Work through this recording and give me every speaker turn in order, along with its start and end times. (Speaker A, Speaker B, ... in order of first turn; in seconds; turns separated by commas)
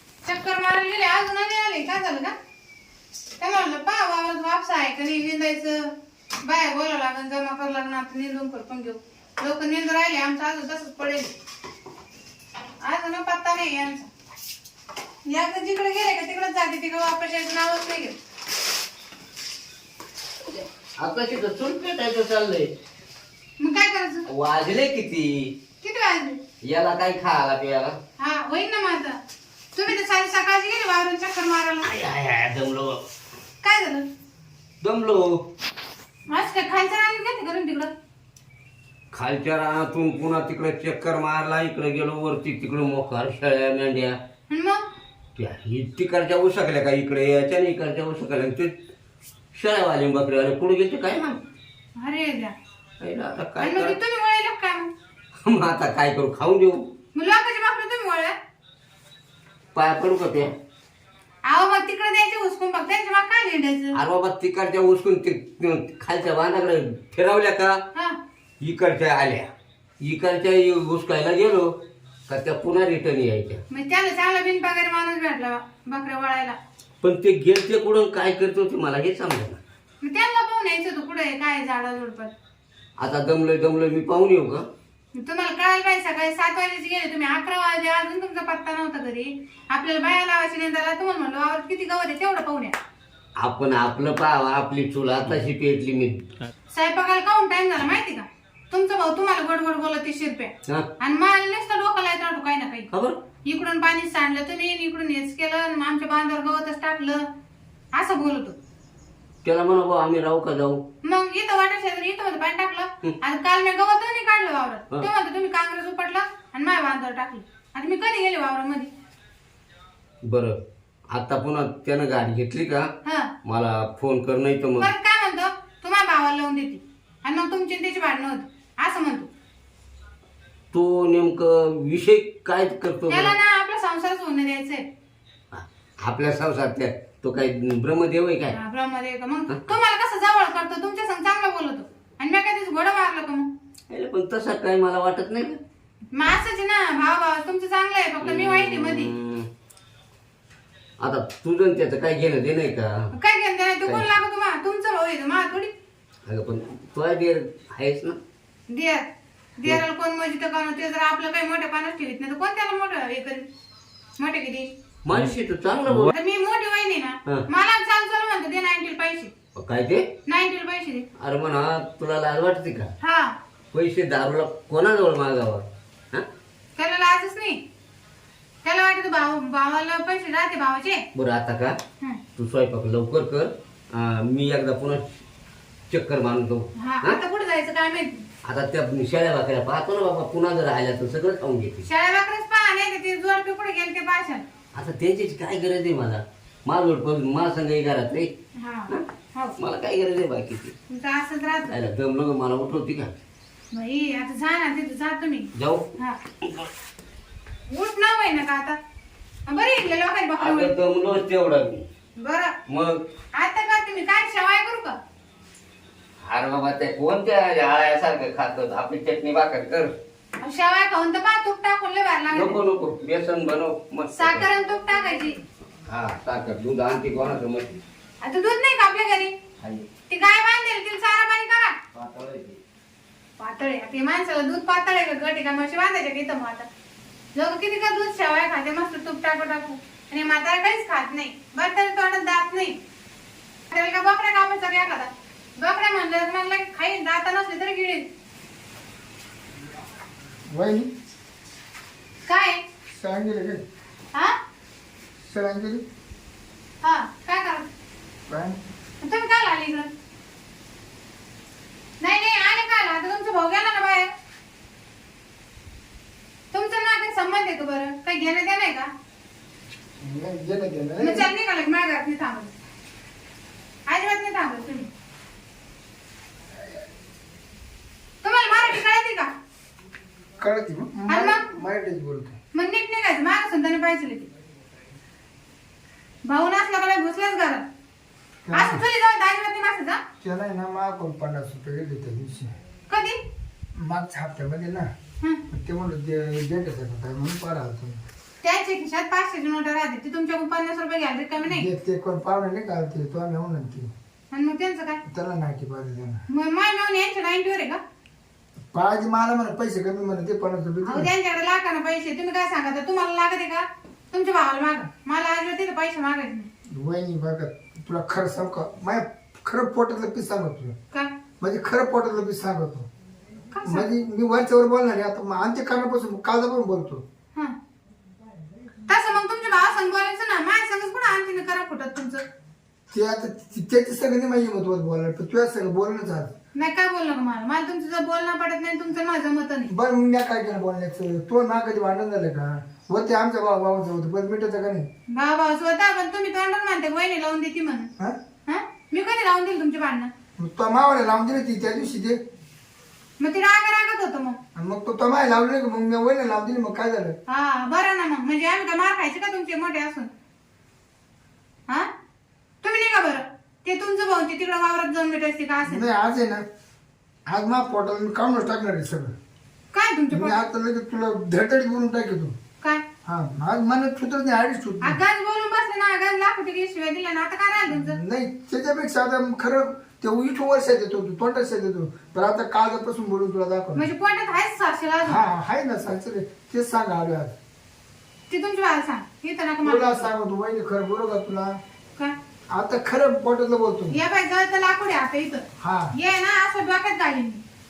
Speaker A: 0.2-2.3, Speaker A: 3.4-11.3, Speaker A: 12.8-14.1, Speaker A: 15.2-18.1, Speaker B: 20.4-22.7, Speaker A: 23.6-24.3, Speaker B: 24.3-25.5, Speaker A: 25.8-26.4, Speaker B: 26.6-27.9, Speaker A: 28.2-29.2, Speaker A: 29.7-31.9, Speaker B: 31.8-33.0, Speaker A: 33.6-34.0, Speaker B: 34.8-35.3, Speaker A: 36.3-37.9, Speaker B: 39.1-44.1, Speaker A: 44.5-44.8, Speaker B: 45.4-48.7, Speaker B: 49.5-51.4, Speaker A: 52.0-52.5, Speaker B: 53.0-54.0, Speaker A: 53.6-54.9, Speaker B: 55.4-56.8, Speaker A: 57.1-58.3, Speaker B: 59.7-60.5, Speaker A: 61.5-64.0, Speaker B: 63.9-67.8, Speaker B: 68.6-69.5, Speaker B: 70.0-71.7, Speaker B: 72.3-73.6, Speaker A: 73.7-76.5, Speaker B: 77.0-79.6, Speaker A: 80.0-82.3, Speaker B: 83.0-84.6, Speaker A: 85.1-92.7, Speaker B: 93.4-96.3, Speaker A: 96.7-102.9, Speaker A: 103.5-107.2, Speaker A: 107.9-108.5, Speaker B: 109.4-110.8, Speaker A: 111.0-118.9, Speaker B: 120.2-120.5, Speaker B: 121.1-122.8, Speaker A: 123.0-123.3, Speaker B: 123.4-124.9, Speaker A: 124.8-129.3, Speaker B: 130.7-133.3, Speaker A: 133.1-134.8, Speaker B: 135.5-138.6, Speaker A: 138.5-143.5, Speaker B: 143.9-145.6, Speaker A: 146.1-149.1, Speaker B: 148.2-149.5, Speaker B: 151.0-152.9, Speaker A: 153.1-155.7, Speaker B: 156.3-158.2, Speaker A: 158.7-159.1, Speaker A: 159.6-163.5, Speaker A: 164.2-164.7, Speaker B: 165.0-166.1, Speaker A: 166.1-169.3, Speaker B: 169.6-170.0, Speaker A: 170.3-171.1, Speaker B: 171.2-172.9, Speaker A: 173.0-173.3, Speaker B: 173.7-176.2, Speaker A: 176.8-177.6, Speaker A: 178.6-181.0, Speaker B: 181.1-181.8, Speaker B: 182.4-185.1, Speaker B: 185.9-187.2, Speaker A: 186.8-188.2, Speaker B: 188.4-191.8, Speaker A: 191.8-194.4, Speaker B: 194.7-198.3, Speaker A: 198.6-199.6, Speaker B: 199.6-200.7, Speaker A: 200.9-201.7, Speaker B: 201.7-203.1, Speaker A: 203.7-206.2, Speaker B: 205.6-205.8, Speaker A: 207.7-208.8, Speaker A: 209.5-210.7, Speaker B: 210.4-211.8, Speaker A: 212.2-212.5, Speaker B: 212.7-213.0, Speaker A: 213.3-215.0, Speaker B: 216.2-219.9, Speaker A: 220.4-222.6, Speaker B: 222.3-224.4, Speaker A: 224.1-225.3, Speaker B: 225.9-227.8, Speaker A: 228.2-229.3, Speaker B: 229.6-229.8, Speaker A: 230.1-231.7, Speaker B: 231.9-232.6, Speaker A: 233.4-236.7, Speaker A: 237.3-242.8, Speaker A: 243.7-248.1, Speaker C: 250.5-250.9, Speaker A: 252.3-252.6, Speaker C: 252.9-253.6, Speaker C: 255.2-255.8, Speaker A: 256.8-257.7, Speaker C: 258.3-258.6, Speaker A: 259.0-259.9, Speaker A: 262.0-264.1, Speaker A: 266.5-268.9, Speaker C: 270.0-271.3, Speaker A: 271.0-272.5, Speaker A: 273.9-274.9, Speaker A: 278.2-279.3, Speaker C: 280.4-282.4, Speaker A: 281.1-281.4, Speaker A: 282.5-284.3, Speaker A: 286.2-287.6, Speaker C: 288.4-288.8, Speaker A: 288.5-290.0, Speaker C: 290.2-292.5, Speaker A: 292.9-293.2, Speaker C: 293.8-294.9, Speaker C: 295.5-298.0, Speaker A: 298.4-301.7, Speaker C: 301.5-303.9, Speaker A: 304.3-305.0, Speaker C: 305.0-306.2, Speaker A: 306.3-307.8, Speaker C: 308.7-311.1, Speaker A: 310.8-316.5, Speaker C: 316.7-320.7, Speaker C: 321.4-322.9, Speaker A: 323.5-323.9, Speaker C: 323.6-327.0, Speaker A: 328.9-332.2, Speaker C: 332.9-336.3, Speaker A: 336.6-339.7, Speaker C: 339.7-344.9, Speaker A: 345.1-347.9, Speaker A: 348.5-350.1, Speaker C: 350.4-352.2, Speaker A: 353.2-354.4, Speaker C: 354.6-357.1, Speaker A: 357.3-360.1, Speaker A: 362.6-365.8, Speaker C: 365.6-366.4, Speaker C: 367.3-369.1, Speaker A: 369.7-370.4, Speaker C: 370.1-372.3, Speaker C: 373.0-375.0, Speaker A: 374.8-378.0, Speaker C: 377.7-383.9, Speaker A: 383.8-385.2, Speaker C: 385.0-387.3, Speaker A: 388.3-390.1, Speaker C: 389.6-391.6, Speaker C: 392.5-393.9, Speaker A: 393.9-397.4, Speaker C: 395.6-395.9